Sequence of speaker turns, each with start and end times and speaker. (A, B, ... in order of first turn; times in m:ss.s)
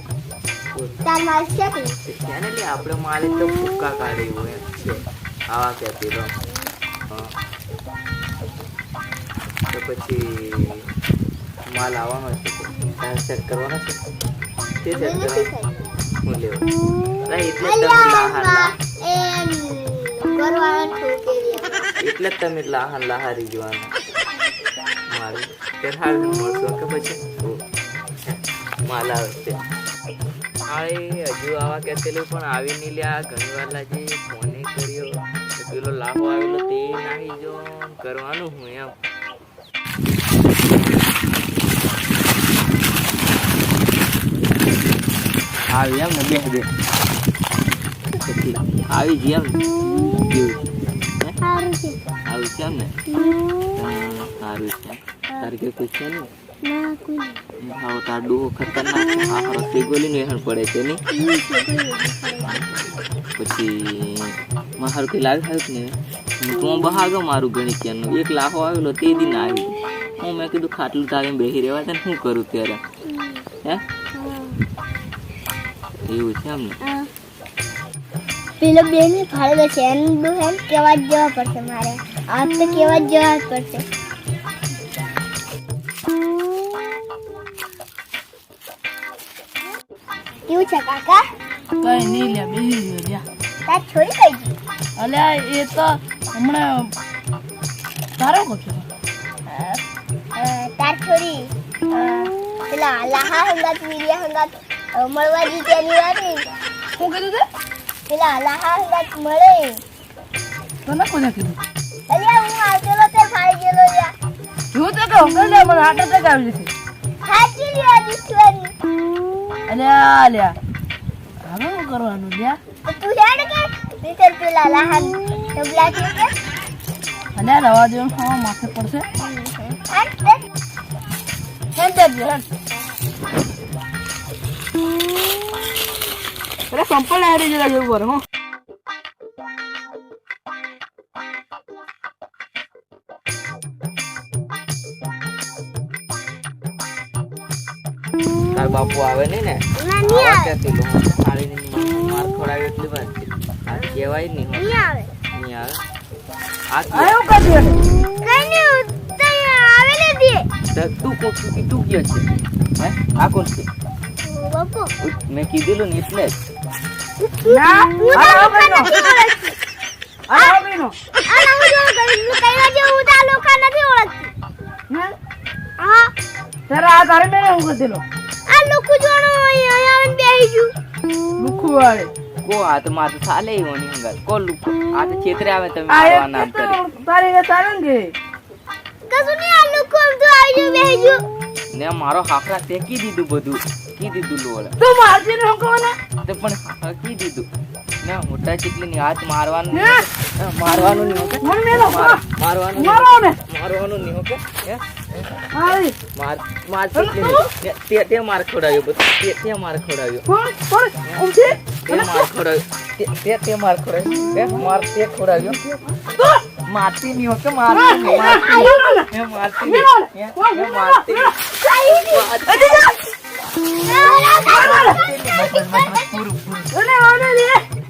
0:00.7-0:01.0 A
0:01.0-0:02.0 B
0:02.0-0:06.3 A
0:07.1-0:07.3 A
0:09.7-0:10.8 A
0:11.7-0:14.0 A
0:14.8-0:15.5 A
0:14.9-0:15.8 B
0:16.2-0:16.7 A
0:17.3-0:18.7 A
0:17.6-0:21.9 B
0:22.0-0:23.9 A
0:25.1-0:27.6 A
0:28.3-0:29.6 A
0:30.7-0:38.9 A
0:45.8-0:46.7 A
0:48.2-0:49.6 A
0:49.9-0:50.4 B
0:50.1-0:51.4 A
0:51.4-0:52.0 B
0:52.3-0:53.0 A
0:53.1-0:53.4 B
0:53.7-0:56.3 A
0:56.6-0:57.4 B
0:57.6-1:01.0 A
1:01.1-1:02.6 B
1:02.4-1:02.9 A
1:03.4-1:12.8 A
1:13.2-1:13.4 B
1:14.2-1:14.6 B
1:16.1-1:16.8 A
1:16.8-1:17.1 B
1:18.6-1:23.9 B
1:30.5-1:31.3 B
1:31.8-1:33.2 C
1:33.7-1:34.5 B
1:35.0-1:36.9 C
1:38.2-1:38.9 C
1:39.5-1:39.8 B
1:40.4-1:46.4 B
1:47.0-1:47.5 C
1:48.1-1:49.8 B
1:50.9-1:51.6 C
1:52.1-1:54.1 B
1:54.7-1:56.7 C
1:57.3-1:58.7 B
1:59.7-2:00.6 C
2:01.4-2:02.6 C
2:02.8-2:06.4 B
2:07.4-2:09.1 C
2:09.2-2:10.4 B
2:11.8-2:12.4 C
2:16.7-2:18.2 C
2:28.5-2:34.8 A
2:29.8-2:30.6 B
2:34.5-2:35.1 B
2:35.3-2:35.8 A
2:36.7-2:37.2 A
2:36.9-2:37.8 C
2:38.2-2:40.5 B
2:40.7-2:42.3 A
2:42.8-2:43.7 A
2:44.2-2:44.9 B
2:45.0-2:46.4 A
2:47.2-2:49.6 B
2:47.4-2:48.9 C
2:50.3-2:51.0 C
2:50.3-2:50.6 B
2:51.1-2:54.3 B
2:54.9-2:55.2 C
2:55.8-2:56.1 B
2:56.7-2:58.0 C
2:58.5-3:00.7 B
3:01.4-3:02.1 C
3:02.4-3:06.8 A
3:05.9-3:08.1 C
3:09.1-3:11.2 B
3:11.7-3:14.8 A
3:14.8-3:16.0 C
3:16.2-3:17.5 A
3:18.0-3:25.4 A
3:19.7-3:20.0 C
3:21.4-3:22.2 C
3:22.8-3:23.4 C
3:25.5-3:26.0 C
3:26.1-3:30.3 A
3:27.0-3:27.5 C
3:30.3-3:32.2 C
3:31.8-3:35.6 A
3:35.9-3:36.4 C
3:36.7-3:41.3 A
3:37.7-3:39.1 C
3:38.3-3:38.7 B
3:39.6-3:41.3 C
3:41.6-3:42.3 B
3:42.0-3:42.9 A
3:42.5-3:42.9 C
3:43.8-3:46.2 B
3:44.6-3:46.7 A
3:44.6-3:45.0 C
3:46.7-3:47.6 C